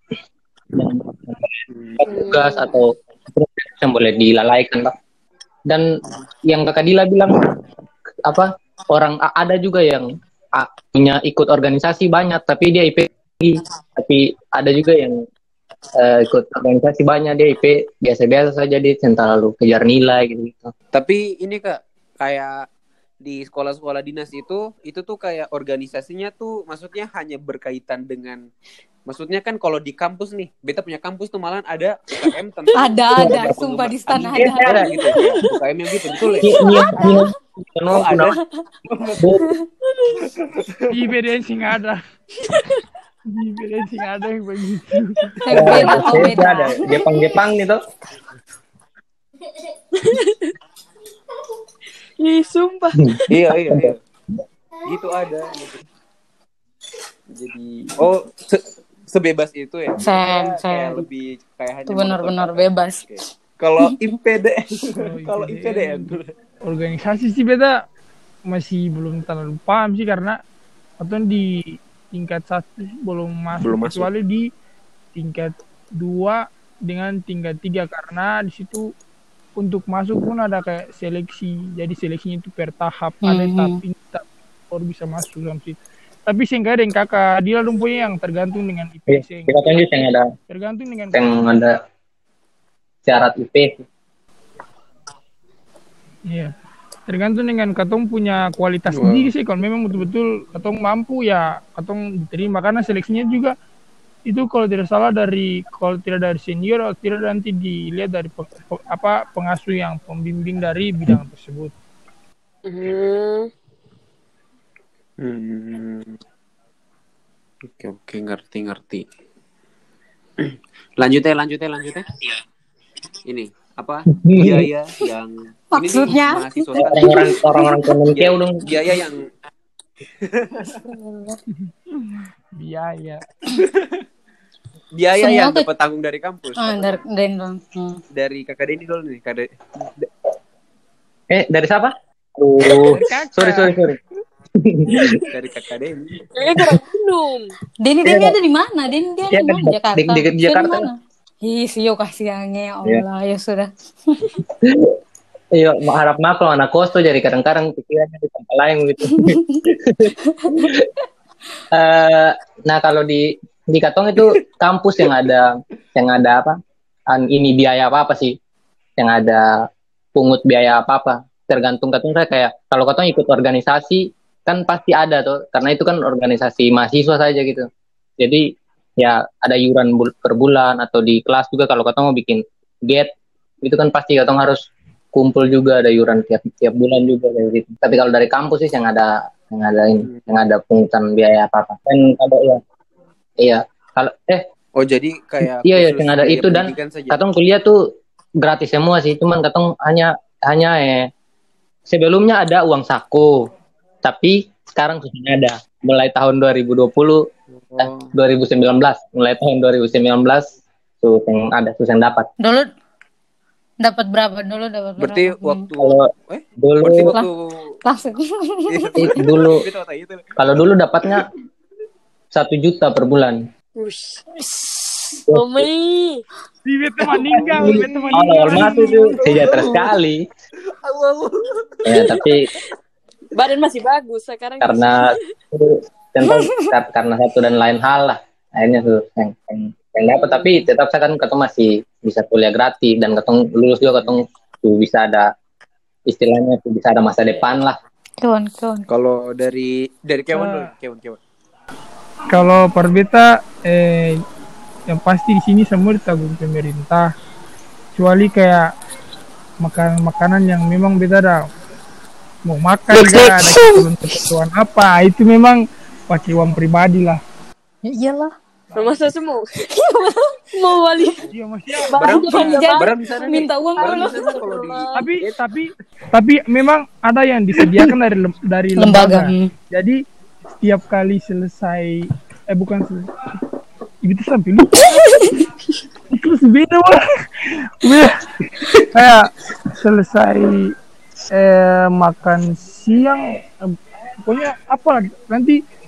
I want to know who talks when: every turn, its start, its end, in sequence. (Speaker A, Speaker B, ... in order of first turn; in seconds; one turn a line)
Speaker A: 0.7-4.9
Speaker B: 1.7-2.0
Speaker C: 2.0-2.8
Speaker A: 6.4-7.3
Speaker A: 8.2-15.2
Speaker A: 16.0-20.7
Speaker B: 20.9-22.6
Speaker B: 23.2-28.5
Speaker B: 29.1-37.1
Speaker D: 32.8-35.2
Speaker A: 33.2-33.5
Speaker A: 34.3-34.9
Speaker A: 36.4-38.4
Speaker D: 36.6-37.3
Speaker B: 37.9-39.2
Speaker A: 39.2-39.5
Speaker B: 40.2-40.9
Speaker E: 40.9-42.0
Speaker E: 43.3-46.3
Speaker B: 45.3-46.1
Speaker D: 45.4-47.3
Speaker A: 45.5-47.8
Speaker C: 49.9-50.5
Speaker C: 52.2-53.2
Speaker B: 53.3-54.0
Speaker B: 54.8-55.8
Speaker B: 57.3-66.3
Speaker D: 60.0-61.0
Speaker D: 61.9-63.0
Speaker E: 64.9-66.1
Speaker E: 66.6-67.8
Speaker E: 68.5-70.4
Speaker E: 71.0-74.5
Speaker B: 73.6-74.1
Speaker E: 75.1-78.9
Speaker E: 79.6-91.3
Speaker D: 83.2-83.8
Speaker A: 89.1-90.3
Speaker A: 91.1-91.7
Speaker A: 93.0-93.8
Speaker E: 97.1-103.5
Speaker B: 98.9-99.3
Speaker E: 104.2-111.7
Speaker C: 112.7-113.5
Speaker B: 115.2-116.2
Speaker B: 117.7-119.0
Speaker B: 120.4-122.1
Speaker B: 123.3-127.2
Speaker A: 124.1-124.7
Speaker D: 125.7-127.9
Speaker A: 126.8-128.6
Speaker B: 128.1-129.3
Speaker B: 130.2-130.8
Speaker D: 130.8-131.4
Speaker E: 131.9-133.2
Speaker B: 133.6-134.0
Speaker B: 134.9-137.0
Speaker D: 135.2-135.7
Speaker D: 136.6-138.0
Speaker B: 138.1-140.1
Speaker A: 141.3-143.9
Speaker E: 142.9-143.8
Speaker A: 144.6-145.2
Speaker B: 145.3-146.3
Speaker C: 146.3-147.5
Speaker D: 147.8-154.3
Speaker A: 148.0-148.3
Speaker A: 149.3-150.9
Speaker A: 154.5-155.0
Speaker A: 155.5-160.9
Speaker D: 159.1-159.4
Speaker D: 160.2-160.7
Speaker A: 161.7-166.6
Speaker A: 167.1-168.3
Speaker A: 169.0-169.5
Speaker A: 170.1-177.7
Speaker A: 178.2-178.4
Speaker A: 179.0-183.1
Speaker A: 183.6-192.6
Speaker A: 193.4-194.4
Speaker B: 194.8-197.2
Speaker A: 195.4-197.8
Speaker A: 198.4-201.1
Speaker A: 201.9-203.3
Speaker A: 204.0-207.2
Speaker B: 207.6-208.1
Speaker A: 207.8-212.3
Speaker D: 212.4-212.7
Speaker D: 213.8-215.6
Speaker B: 215.0-217.8
Speaker A: 215.8-217.1
Speaker D: 217.8-219.2
Speaker B: 218.7-220.3
Speaker A: 219.0-219.6
Speaker A: 220.4-221.3
Speaker A: 222.3-223.4
Speaker C: 223.8-224.2
Speaker D: 224.4-225.1
Speaker A: 225.3-225.7
Speaker C: 225.3-226.2
Speaker E: 226.6-229.0
Speaker B: 227.3-228.1
Speaker A: 227.5-230.2
Speaker D: 228.1-228.7
Speaker B: 229.2-229.9
Speaker B: 230.8-232.2
Speaker A: 231.8-232.4
Speaker C: 233.3-235.2
Speaker A: 234.6-235.0
Speaker A: 235.5-245.3
Speaker D: 236.2-236.7
Speaker A: 246.1-247.8
Speaker D: 248.2-248.9
Speaker B: 248.9-251.2
Speaker E: 250.3-250.7
Speaker E: 252.3-254.2
Speaker E: 254.9-257.1
Speaker E: 257.9-258.7
Speaker E: 259.6-261.4
Speaker E: 262.4-267.2
Speaker D: 262.9-263.9
Speaker D: 267.8-268.3
Speaker C: 268.7-269.6
Speaker D: 269.7-270.4
Speaker C: 270.5-271.2
Speaker E: 271.3-272.7
Speaker D: 271.7-274.4
Speaker C: 271.8-273.2
Speaker B: 271.9-275.5
Speaker C: 273.8-274.9
Speaker E: 274.9-280.0
Speaker D: 278.8-279.5
Speaker E: 280.6-283.1
Speaker E: 284.0-285.3
Speaker D: 284.9-285.3
Speaker E: 286.1-288.2
Speaker E: 288.9-290.7
Speaker E: 291.3-295.6